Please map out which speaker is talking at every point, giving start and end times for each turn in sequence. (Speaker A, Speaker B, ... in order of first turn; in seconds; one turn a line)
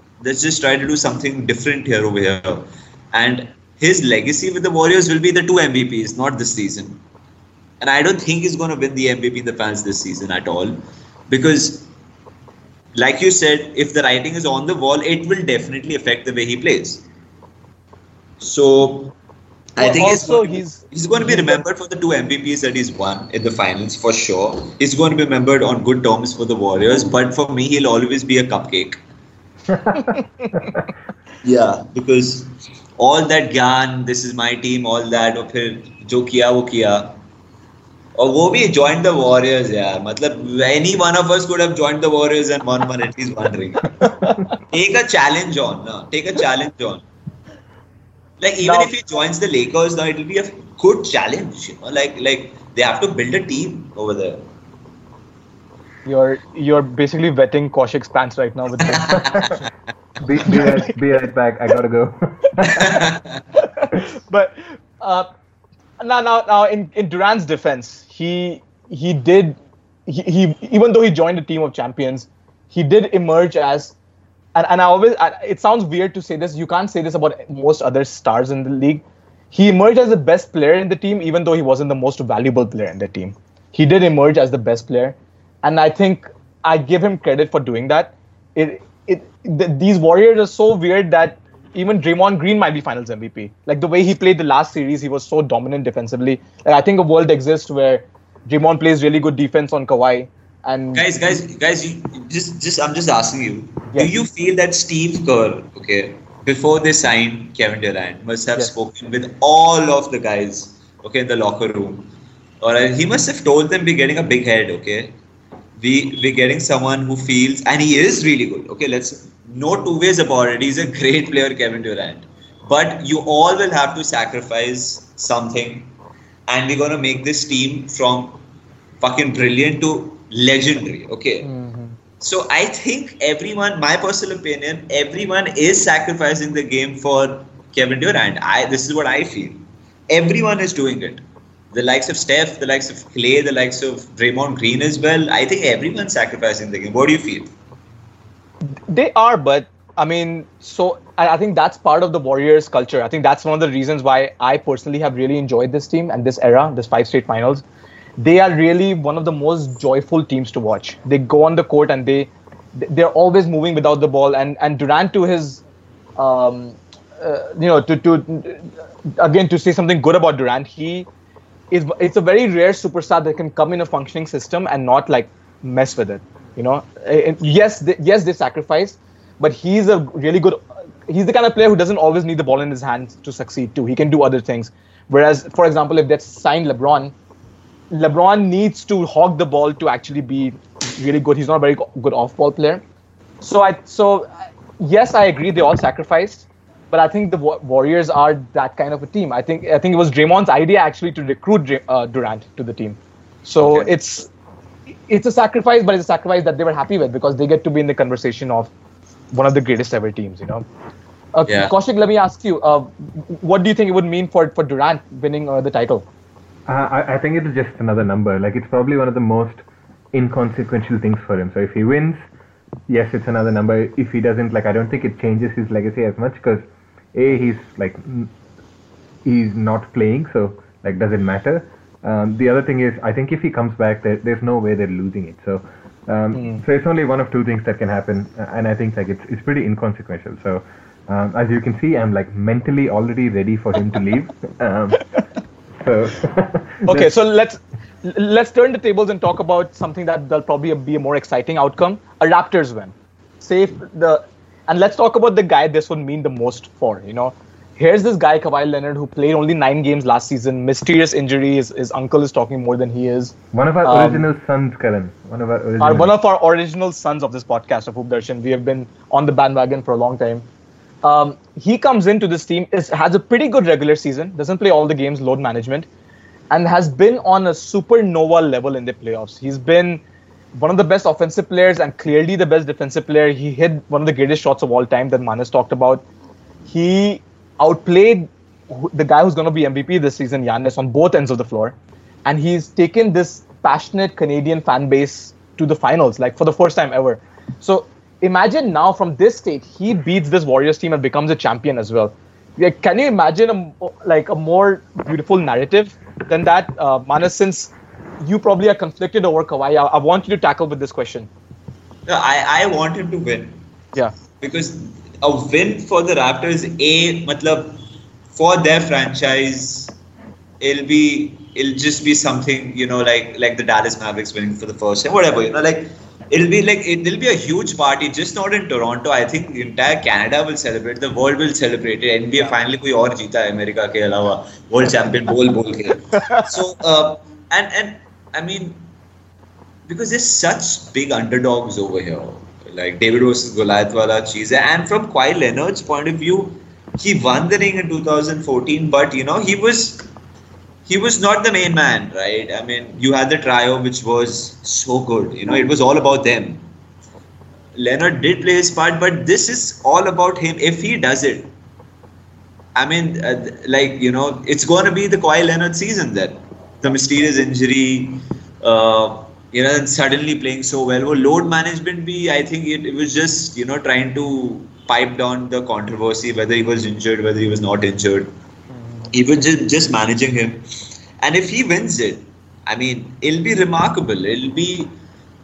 Speaker A: 0.2-7.0
Speaker A: 7.8-11.9
Speaker A: 12.9-17.1
Speaker A: 18.4-19.1
Speaker A: 19.8-29.0
Speaker B: 19.8-21.6
Speaker C: 29.7-30.8
Speaker B: 29.9-30.7
Speaker A: 31.4-37.2
Speaker A: 38.2-47.0
Speaker B: 44.0-44.5
Speaker A: 48.4-54.5
Speaker B: 48.6-48.9
Speaker B: 56.0-59.4
Speaker A: 58.8-59.7
Speaker C: 59.3-59.6
Speaker C: 60.2-63.0
Speaker B: 60.5-60.9
Speaker A: 62.6-63.4
Speaker B: 63.6-65.3
Speaker B: 66.0-73.9
Speaker B: 74.5-101.4
Speaker A: 100.9-112.1
Speaker A: 112.6-115.1
Speaker A: 115.8-125.9
Speaker A: 126.5-128.4
Speaker A: 129.0-131.5
Speaker B: 131.4-132.0
Speaker A: 132.2-147.5
Speaker B: 148.7-157.6
Speaker B: 158.2-165.6
Speaker B: 166.2-171.1
Speaker B: 171.7-187.1
Speaker B: 187.9-192.8
Speaker B: 193.4-204.3
Speaker A: 203.6-203.9
Speaker B: 205.1-208.7
Speaker B: 209.3-210.6
Speaker B: 211.3-216.1
Speaker A: 211.5-211.7
Speaker C: 216.7-222.2
Speaker C: 222.9-228.3
Speaker C: 229.2-245.1
Speaker B: 236.3-236.6
Speaker C: 245.8-247.1
Speaker B: 246.9-264.2
Speaker C: 263.5-266.1
Speaker B: 265.8-270.4
Speaker B: 271.0-275.9
Speaker B: 276.5-280.0
Speaker B: 280.5-286.0
Speaker B: 286.7-311.3
Speaker A: 312.1-313.6
Speaker A: 314.4-317.8
Speaker A: 318.4-320.0
Speaker A: 320.6-338.9
Speaker B: 336.1-336.5
Speaker A: 339.9-350.0
Speaker A: 350.9-356.7
Speaker A: 357.8-361.5
Speaker A: 362.7-378.3
Speaker B: 378.7-379.1
Speaker A: 379.1-380.6
Speaker A: 381.2-384.9